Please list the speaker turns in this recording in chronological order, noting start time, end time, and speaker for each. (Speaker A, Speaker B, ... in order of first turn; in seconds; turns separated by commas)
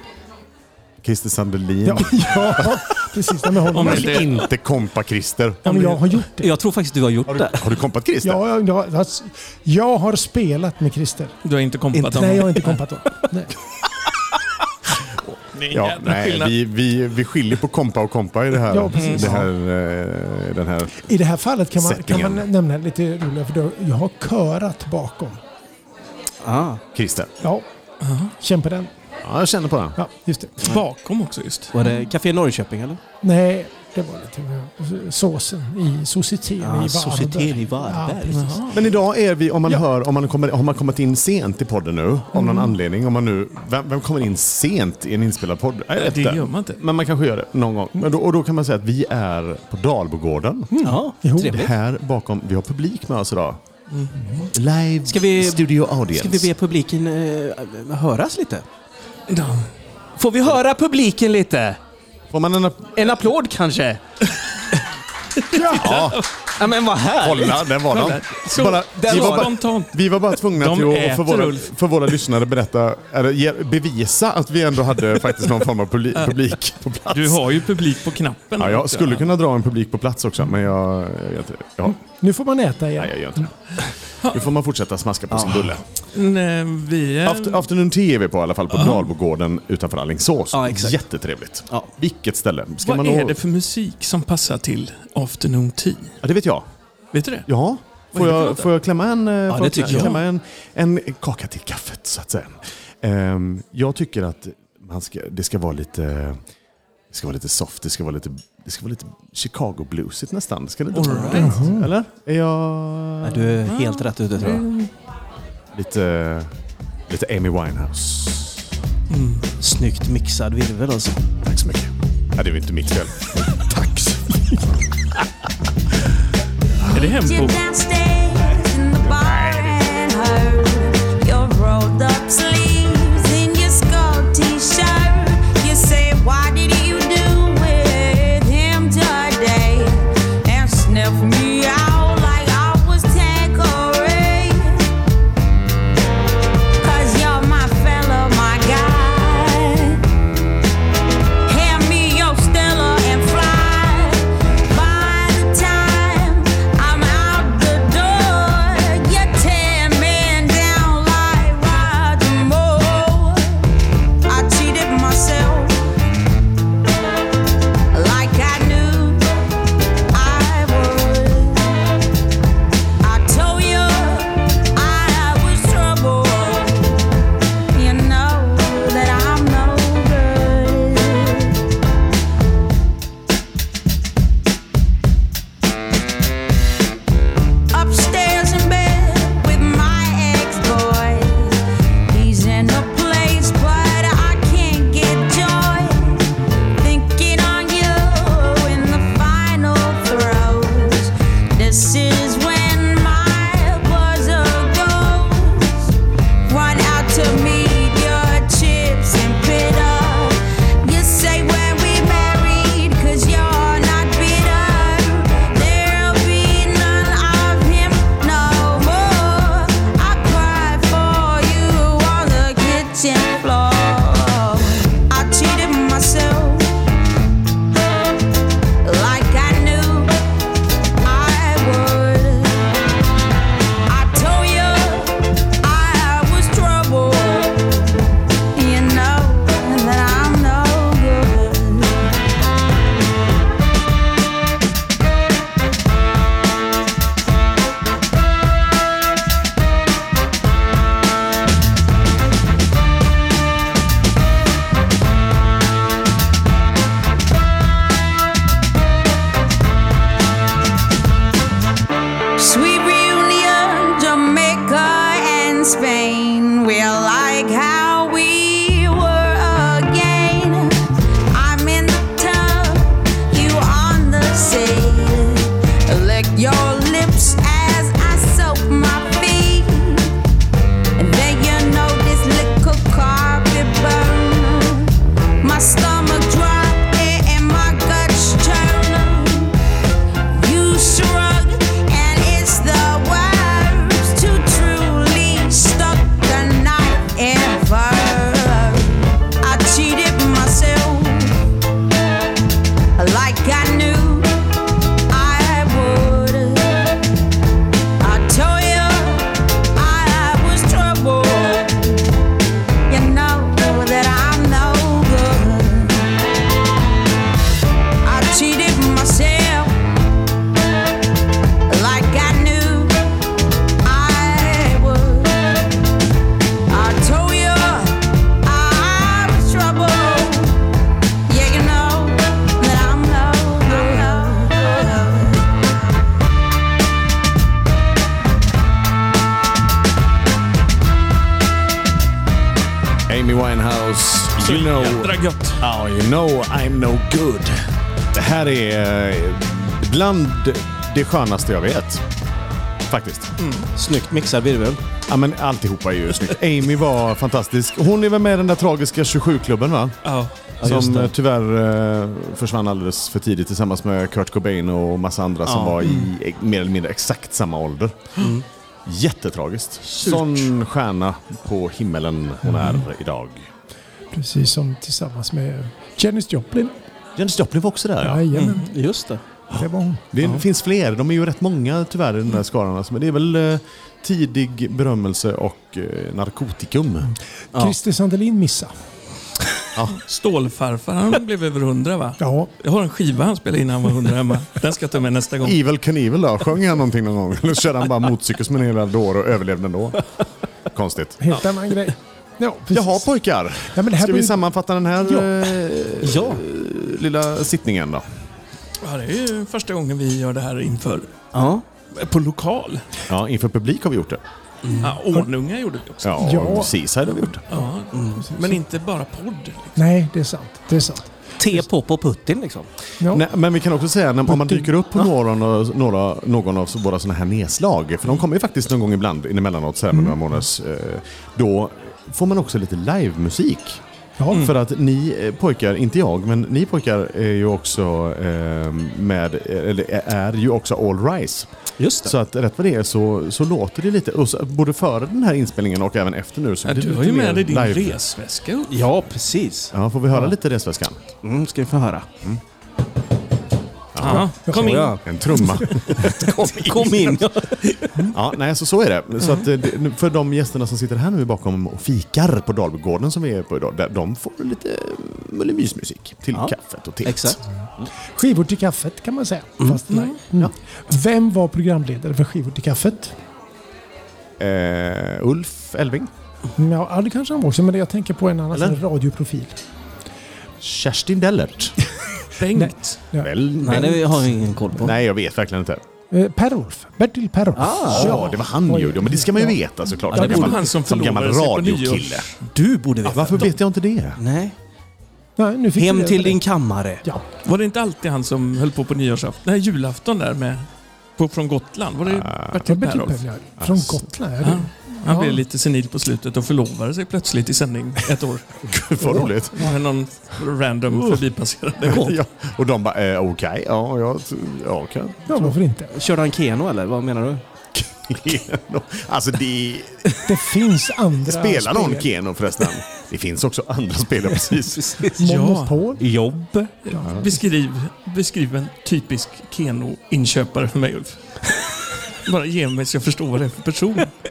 Speaker A: 1.0-2.8, Speaker B: 1.9-4.2, Speaker A: 3.7-5.8, Speaker C: 3.7-4.5, Speaker B: 5.7-6.5, Speaker D: 6.4-7.6, Speaker A: 7.3-8.4, Speaker B: 8.2-11.3, Speaker C: 11.4-12.8, Speaker B: 11.9-13.5, Speaker C: 15.6-16.6, Speaker A: 15.7-21.1, Speaker B: 18.7-19.5, Speaker C: 18.9-19.4, Speaker B: 21.0-25.4, Speaker A: 21.8-22.5, Speaker D: 26.4-26.8, Speaker A: 26.9-27.3, Speaker C: 28.0-28.3, Speaker B: 28.4-28.9, Speaker A: 29.2-30.0, Speaker B: 30.0-30.7, Speaker C: 30.6-31.8, Speaker D: 31.7-33.0, Speaker B: 33.2-38.6, Speaker D: 36.6-38.6, Speaker C: 38.3-38.9, Speaker A: 38.7-50.8, Speaker C: 45.9-46.8, Speaker B: 50.7-51.5, Speaker D: 50.8-51.7, Speaker A: 51.4-53.6, Speaker B: 54.2-54.5, Speaker A: 54.5-56.5, Speaker D: 55.1-58.7, Speaker C: 59.3-59.7, Speaker D: 60.2-61.8, Speaker A: 62.3-63.3, Speaker D: 63.0-64.0, Speaker C: 65.4-66.3, Speaker B: 65.5-65.8, Speaker A: 65.7-66.3, Speaker D: 66.6-67.7, Speaker A: 67.2-77.7, Speaker C: 67.8-71.7, Speaker D: 68.6-69.5, Speaker C: 76.2-76.5, Speaker C: 77.1-79.3, Speaker A: 78.6-82.0, Speaker B: 81.9-83.5, Speaker A: 83.0-85.8, Speaker D: 85.3-85.6, Speaker C: 86.1-87.6, Speaker A: 87.2-93.4, Speaker C: 88.8-89.1, Speaker D: 90.5-91.0, Speaker C: 92.8-96.2, Speaker A: 96.2-96.7, Speaker C: 97.1-97.5, Speaker A: 97.5-106.4, Speaker C: 98.1-98.7, Speaker D: 99.5-100.2, Speaker C: 99.5-100.2, Speaker A: 107.1-113.7, Speaker C: 110.9-111.6, Speaker D: 111.1-111.4, Speaker B: 111.4-111.9, Speaker D: 113.2-114.7, Speaker C: 113.7-114.9, Speaker A: 115.7-116.5, Speaker A: 117.1-118.7, Speaker C: 119.1-119.4, Speaker D: 119.6-121.2, Speaker A: 121.4-123.8, Speaker B: 123.9-124.2, Speaker C: 126.9-127.6, Speaker E: 126.9-144.9, Speaker A: 129.1-129.8, Speaker E: 146.8-150.0, Speaker E: 151.5-163.7, Speaker E: 164.2-165.8, Speaker E: 167.9-169.3, Speaker E: 170.1-171.8, Speaker E: 173.0-177.0, Speaker E: 177.7-181.6, Speaker E: 187.7-196.2, Speaker E: 196.8-205.9, Speaker E: 206.5-226.7, Speaker E: 228.8-230.1, Speaker E: 231.0-232.7, Speaker E: 233.9-242.1, Speaker E: 262.4-280.1, Speaker E: 281.0-289.6, Speaker E: 290.3-301.4, Speaker E: 303.0-304.3, Speaker E: 305.1-306.9, Speaker E: 308.0-312.0, Speaker E: 312.9-316.1, Speaker E: 318.0-319.8, Speaker E: 321.7-322.9, Speaker E: 323.8-325.6, Speaker E: 326.7-330.6, Speaker E: 331.3-335.4, Speaker A: 343.1-352.1, Speaker C: 344.4-345.6, Speaker A: 352.9-353.3, Speaker C: 353.4-353.7, Speaker D: 353.8-354.8, Speaker A: 355.1-368.2, Speaker C: 360.0-360.3, Speaker D: 360.6-361.1, Speaker D: 365.5-365.8, Speaker C: 365.8-366.1, Speaker D: 368.2-368.4, Speaker A: 368.9-373.5, Speaker C: 369.9-370.5, Speaker B: 374.1-376.7, Speaker A: 377.2-378.2, Speaker B: 378.0-378.8, Speaker C: 378.3-378.7, Speaker D: 378.7-379.2, Speaker B: 379.5-380.1, Speaker A: 380.1-387.1, Speaker B: 387.5-388.7, Speaker C: 389.9-395.6, Speaker B: 392.2-392.5, Speaker A: 395.4-400.0, Speaker A: 400.7-401.2, Speaker B: 401.2-403.1, Speaker A: 402.7-408.0, Speaker B: 403.7-404.5, Speaker D: 406.0-406.4, Speaker C: 408.8-411.1, Speaker D: 411.3-411.6, Speaker C: 411.9-412.9, Speaker A: 413.1-414.2, Speaker D: 414.6-414.9, Speaker C: 414.8-416.4, Speaker A: 416.0-417.4, Speaker B: 416.2-416.7, Speaker C: 417.2-419.8, Speaker D: 417.9-418.3, Speaker B: 418.2-418.6, Speaker B: 419.8-421.1, Speaker D: 421.4-422.7, Speaker B: 423.0-423.2, Speaker A: 423.1-441.5, Speaker B: 424.3-424.7, Speaker B: 434.2-434.5, Speaker D: 441.8-442.1, Speaker A: 442.0-448.0, Speaker C: 446.6-448.8, Speaker D: 448.7-449.7, Speaker A: 449.7-451.0, Speaker D: 451.2-452.1, Speaker A: 453.9-457.4, Speaker C: 454.0-455.5, Speaker B: 454.4-454.8, Speaker D: 454.6-455.1, Speaker D: 455.9-458.1, Speaker A: 458.1-467.9, Speaker D: 467.0-467.4, Speaker B: 468.2-473.1, Speaker C: 469.9-470.2, Speaker A: 474.4-476.1, Speaker B: 476.6-479.6, Speaker A: 478.5-478.8, Speaker A: 480.6-481.8, Speaker C: 482.4-483.0, Speaker B: 482.5-483.9, Speaker A: 483.2-485.8, Speaker D: 483.6-484.9, Speaker B: 486.1-489.6, Speaker D: 487.6-488.3, Speaker A: 487.9-492.3, Speaker B: 490.1-490.5, Speaker C: 490.1-492.4, Speaker D: 490.2-490.6, Speaker D: 492.5-493.6, Speaker C: 493.1-493.5, Speaker A: 493.1-494.2, Speaker D: 494.2-494.6, Speaker B: 495.4-496.4, Speaker D: 495.8-497.0, Speaker C: 497.4-503.2, Speaker A: 502.1-502.6, Speaker B: 502.7-505.4, Speaker A: 503.6-504.0, Speaker C: 504.4-512.1, Speaker A: 508.6-509.7, Speaker A: 511.8-515.5, Speaker B: 515.3-515.9, Speaker D: 515.9-517.4, Speaker A: 517.7-520.2, Speaker B: 520.2-522.1, Speaker A: 521.2-525.0, Speaker D: 524.7-525.2, Speaker B: 525.2-527.1, Speaker C: 525.2-525.9, Speaker D: 526.0-526.7, Speaker C: 526.9-534.1, Speaker A: 527.0-527.3